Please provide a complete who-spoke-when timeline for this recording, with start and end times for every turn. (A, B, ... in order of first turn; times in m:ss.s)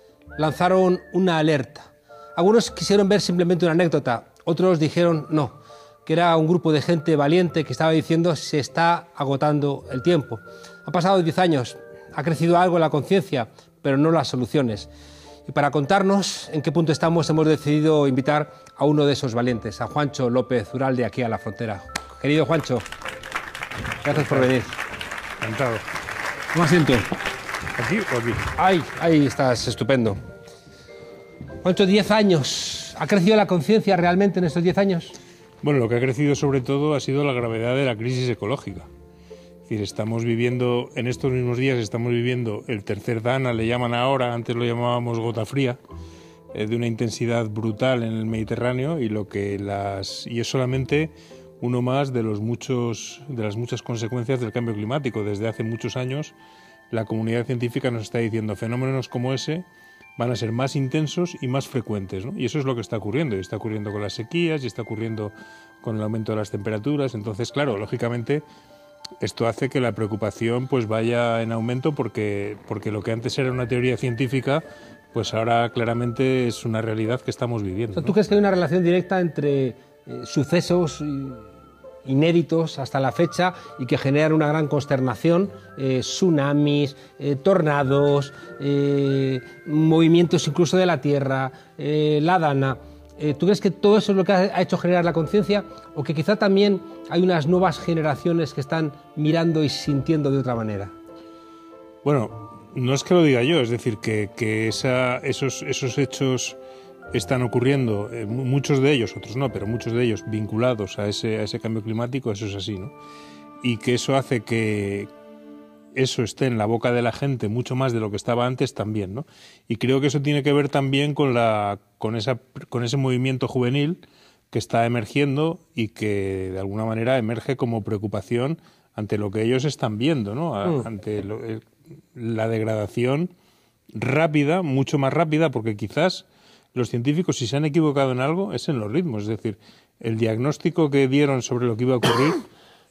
0:00.4-0:14.9 A
0:15.5-0:22.8 A
0:24.0-0:24.7 A
0:24.1-0:24.5 B
0:25.4-0:25.8 B
0:26.5-0:27.1 A
0:27.8-0:28.5 B
0:28.5-0:30.2 A
0:31.6-0:35.2 A
0:35.6-0:38.9 B
0:39.7-0:45.8 B
0:46.5-0:56.3 B
0:56.9-0:59.6 B
1:00.2-1:08.4 B
1:09.2-1:18.1 B
1:17.9-1:21.4 A
1:22.0-1:40.9 A
1:42.0-1:46.6 B
1:47.1-1:52.9 B
1:53.6-1:55.1 B
1:55.9-2:13.3 B
2:13.9-2:22.4 B